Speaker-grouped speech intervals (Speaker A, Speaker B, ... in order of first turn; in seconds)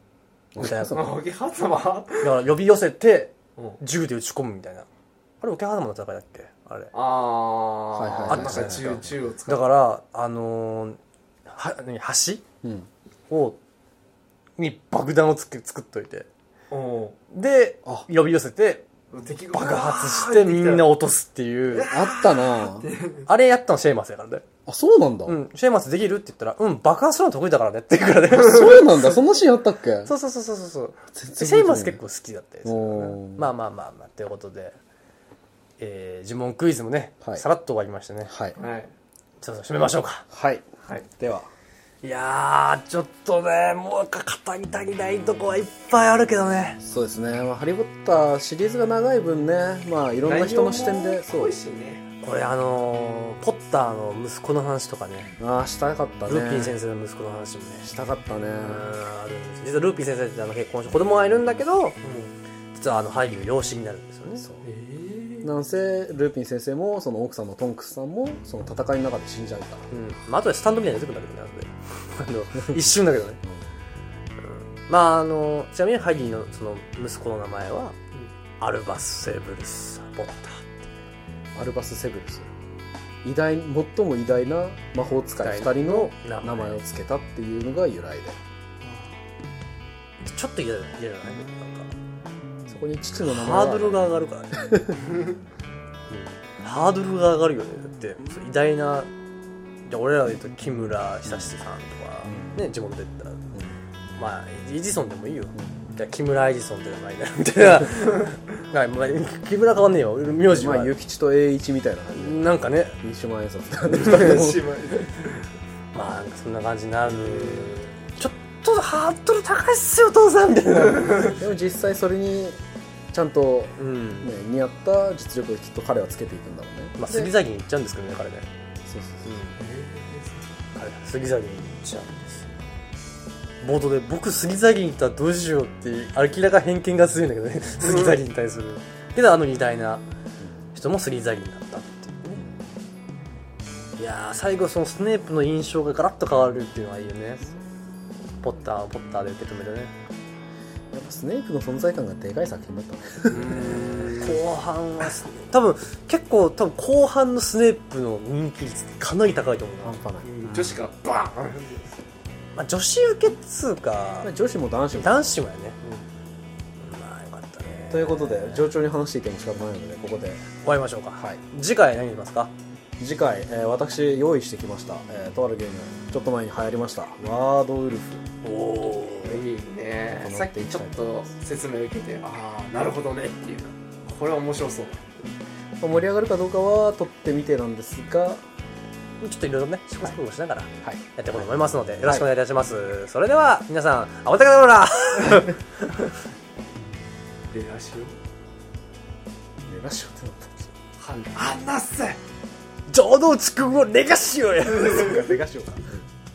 Speaker A: 0.6-1.1, 7.9-9.2, 12.6-12.9, 21.9-22.9, 24.6-25.4, 28.3-30.1, 31.1-32.0, 32.6-33.5, 38.3-38.6, 40.3-41.5, 46.8-51.6, 55.4-56.8, 57.8-58.9, 64.4-64.7, 65.4-69.9, 72.6-72.9, 81.5-82.5, 83.2-88.4, 92.7-95.0, 101.2-101.5, 102.2-102.6, 103.5-103.8, 105.5-105.9, 110.5-114.8, 121.3-122.6, 123.1-127.3, 128.8-129.3, 142.3-142.7, 150.9-154.2, 159.8-160.8, 164.2-165.3, 167.9-170.5, 173.0-178.3, 180.1-181.2, 185.8-188.4, 190.8-192.3, 199.6-200.7, 204.8-206.0
Speaker B: 0.6-1.1, 2.2-4.9, 5.4-6.9, 8.3-12.4, 13.3-13.6, 14.6-16.3, 17.3-18.9, 19.5-21.9, 23.2-24.4, 25.2-28.9, 30.1-34.8, 35.8-38.3, 39.4-40.2, 42.0-46.8, 52.2-55.4, 56.3-57.9, 58.6-62.0, 62.7-64.5, 69.9-73.4, 74.4-78.0, 78.6-81.0, 85.4-86.8, 90.2-91.9, 93.2-94.6, 96.1-99.1, 99.9-103.4, 104.2-110.9, 112.1-113.0, 115.9-121.3, 123.8-124.3, 127.0-128.5, 129.2-129.6, 130.7-132.5, 133.6-140.0, 140.7-142.4, 144.0-147.5, 148.4-149.9, 154.1-160.0, 162.5-164.3, 164.9-165.8, 166.8-168.7, 170.6-172.5, 178.4-179.4, 189.2-196.1, 202.9-205.2
Speaker C: 0.9-2.4, 6.9-9.7, 16.7-17.2, 19.1-20.9, 21.7-23.3, 38.6-38.9, 50.2-52.0, 62.0-62.3, 64.6-65.6, 113.9-115.4, 117.1-117.9, 129.6-130.4, 137.8-138.1, 153.3-154.4, 160.2-162.0, 179.2-185.1, 197.5-198.2, 201.0-202.2, 204.8-205.2